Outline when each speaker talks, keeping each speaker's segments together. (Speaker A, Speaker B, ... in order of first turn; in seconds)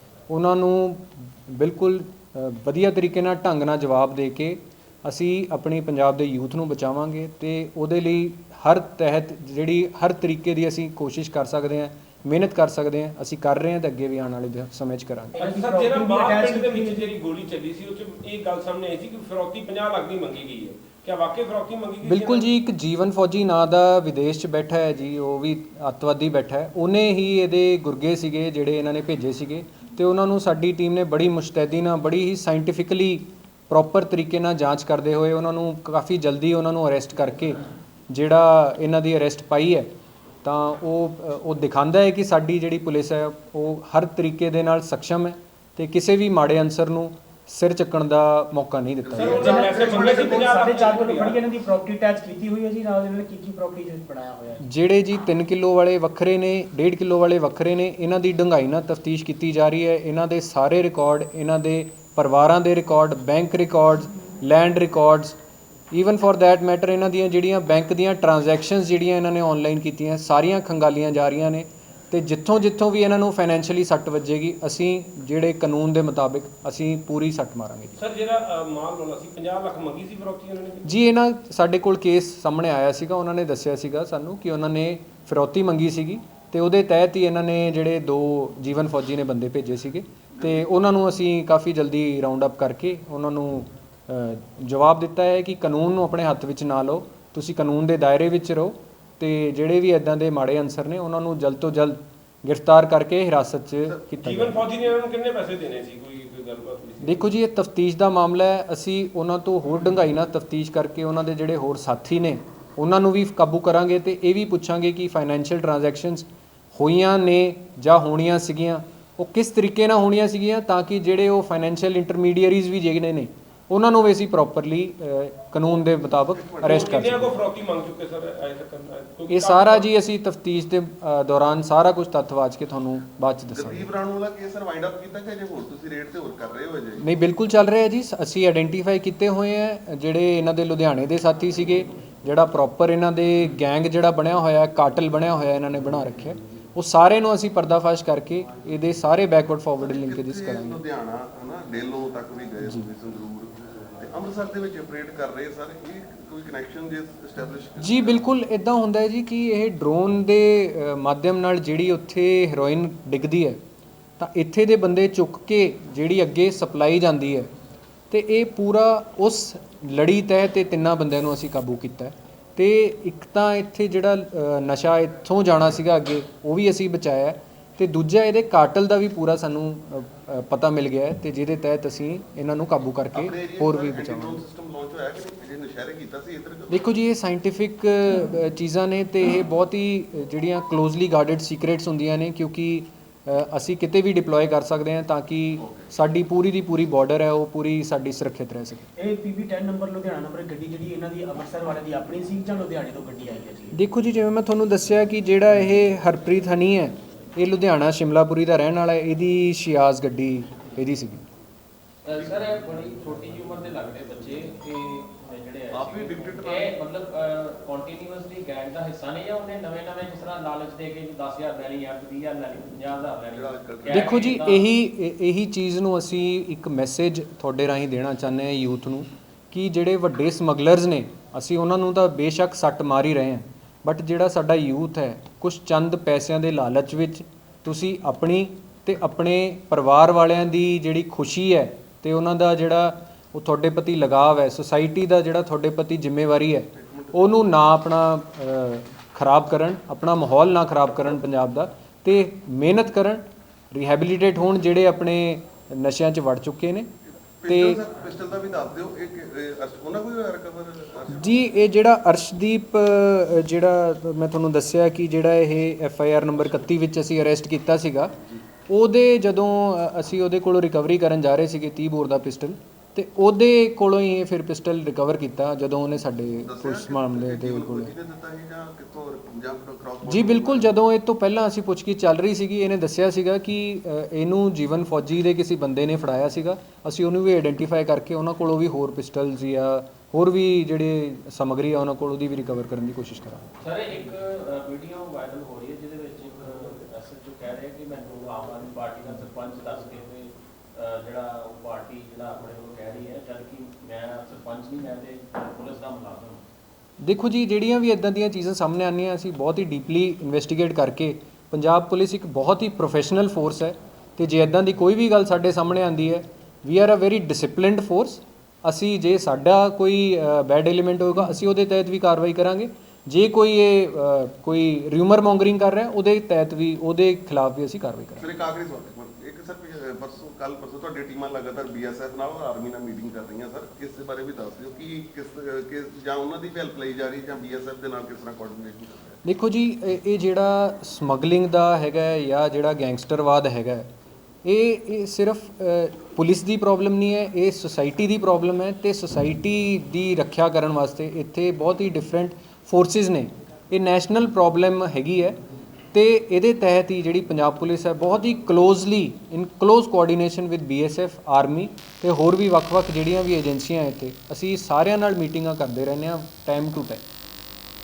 Speaker A: 0.3-15.4, 22.0-39.9, 40.4-49.5, 54.6-65.4, 65.9-78.0, 80.9-104.7, 107.0-127.3, 129.3-133.9, 137.0-150.8, 157.8-163.6, 164.2-167.5, 168.1-184.4, 186.7-198.9, 203.7-211.2, 223.9-256.9, 257.5-257.8, 261.1-268.2, 268.7-277.9, 280.1-293.5, 307.0-328.3, 339.2-343.9, 344.4-355.4, 355.9-367.0
Speaker B: 15.3-17.1, 49.3-54.6, 199.0-203.8
Speaker C: 15.4-22.5, 49.2-51.4, 78.0-80.9, 104.2-107.3, 126.6-129.9
Speaker D: 49.0-50.2, 90.3-90.6, 126.3-126.8, 133.5-137.1, 149.8-158.2, 183.1-186.9, 212.2-212.5, 215.7-216.8, 223.3-224.4, 246.8-247.4, 257.4-261.4, 276.4-280.7, 328.2-339.2
Speaker E: 212.1-224.7, 293.6-306.4